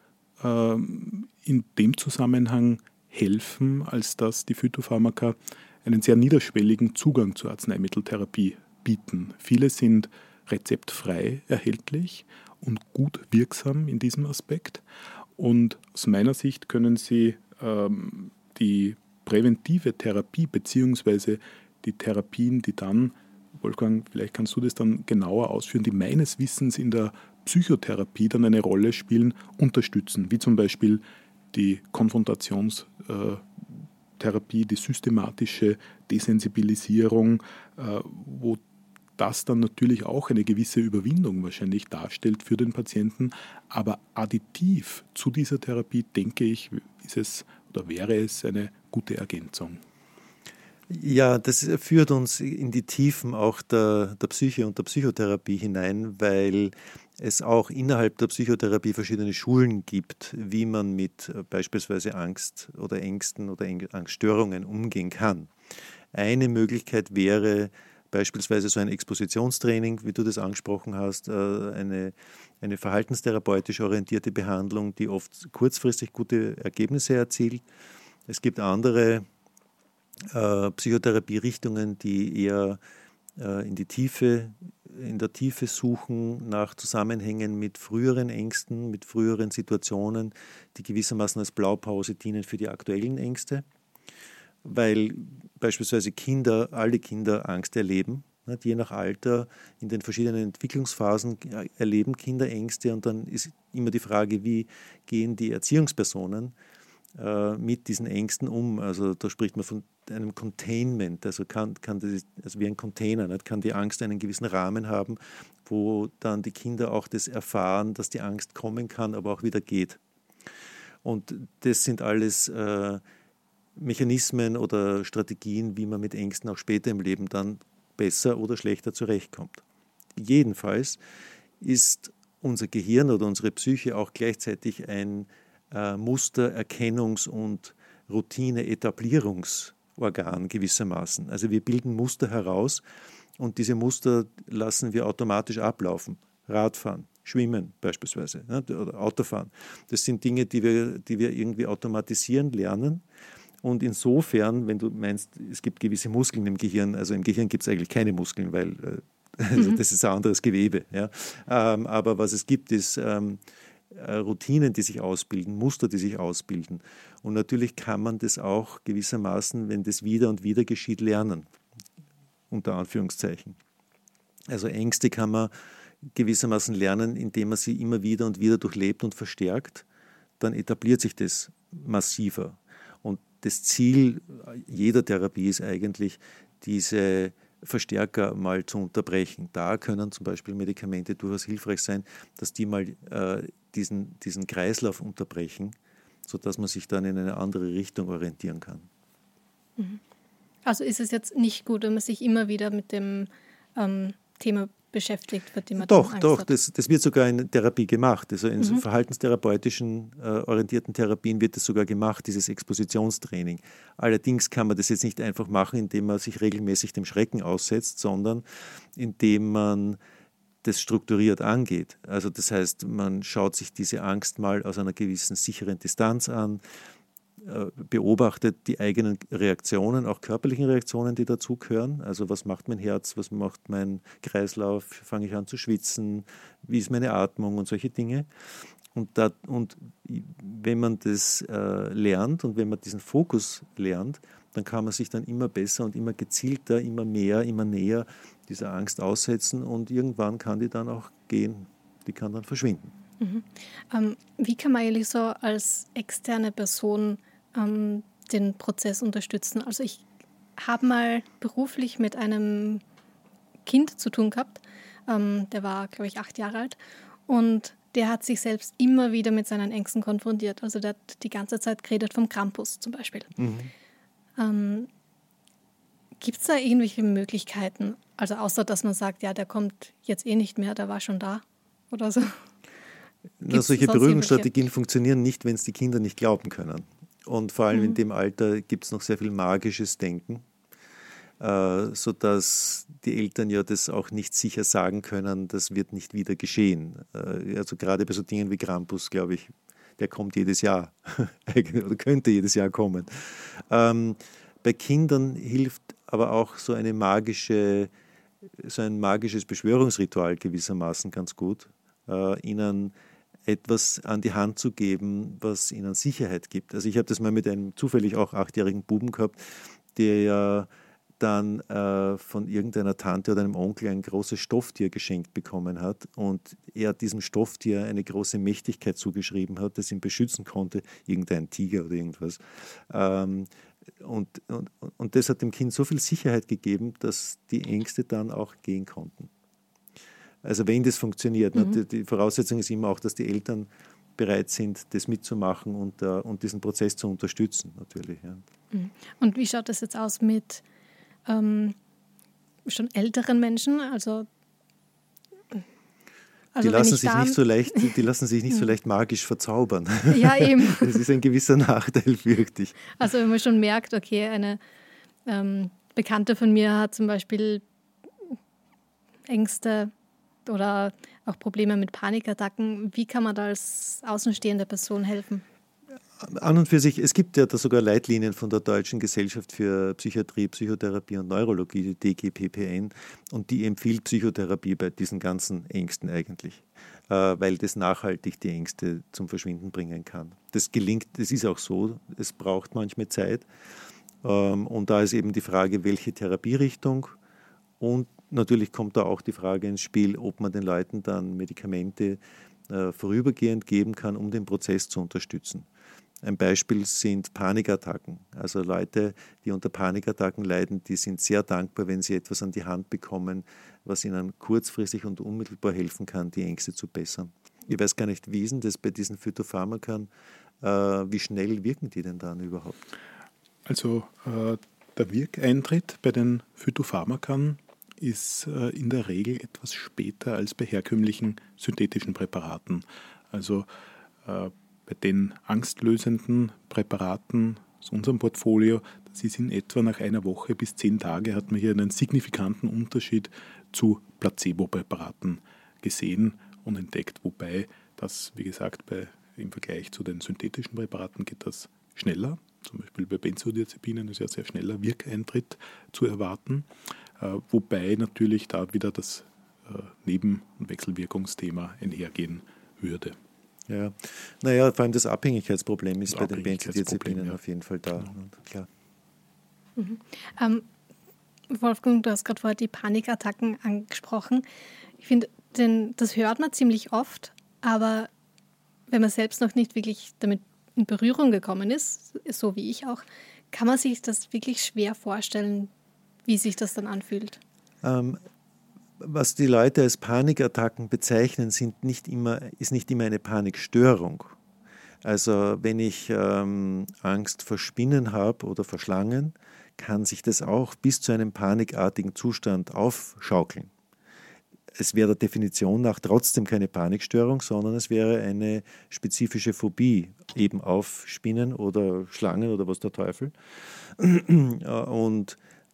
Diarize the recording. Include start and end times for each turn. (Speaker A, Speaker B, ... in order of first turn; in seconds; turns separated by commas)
Speaker A: 0.4-14.8, Speaker A: 15.4-38.6, Speaker A: 39.2-49.8, Speaker B: 50.9-65.5, Speaker B: 66.1-77.6, Speaker B: 78.3-79.3, Speaker B: 80.3-82.8, Speaker B: 83.4-93.6, Speaker B: 94.6-106.5, Speaker B: 107.2-120.0, Speaker B: 121.0-123.0, Speaker B: 123.8-129.6, Speaker B: 130.2-131.0, Speaker B: 131.6-142.8, Speaker B: 143.4-153.0, Speaker B: 153.6-171.5, Speaker B: 172.5-173.6, Speaker B: 174.5-175.5, Speaker B: 176.1-179.8, Speaker B: 180.4-198.9, Speaker C: 200.7-206.5, Speaker B: 205.8-220.0, Speaker B: 220.6-226.6, Speaker B: 227.4-238.3, Speaker B: 238.9-252.9, Speaker C: 253.2-260.0, Speaker C: 260.6-262.8, Speaker C: 263.6-273.3, Speaker B: 273.4-273.7, Speaker C: 274.4-274.9, Speaker C: 276.2-282.4, Speaker B: 283.4-290.4, Speaker C: 283.5-284.5, Speaker C: 287.7-288.0, Speaker B: 291.4-307.9, Speaker B: 308.6-312.9, Speaker B: 313.5-333.5, Speaker B: 334.0-339.3, Speaker B: 340.4-348.4, Speaker C: 348.7-350.6, Speaker C: 351.3-351.8, Speaker C: 352.7-354.3, Speaker C: 356.6-357.9, Speaker B: 356.6-363.0, Speaker C: 360.1-361.0, Speaker C: 363.0-364.6, Speaker C: 365.3-367.6, Speaker C: 369.3-369.9, Speaker C: 370.4-375.4, Speaker B: 376.2-393.5, Speaker B: 394.2-397.2, Speaker B: 397.8-405.7, Speaker B: 406.2-420.1, Speaker B: 420.6-422.8, Speaker A: 423.7-433.7, Speaker A: 434.2-456.7, Speaker A: 457.2-463.2, Speaker B: 463.7-468.7, Speaker A: 466.1-467.4, Speaker C: 469.8-470.7, Speaker C: 471.5-474.4, Speaker C: 475.0-478.1, Speaker C: 478.9-485.7, Speaker C: 486.3-487.4, Speaker B: 487.8-488.2, Speaker B: 489.0-494.4, Speaker B: 495.0-503.7, Speaker B: 504.8-515.4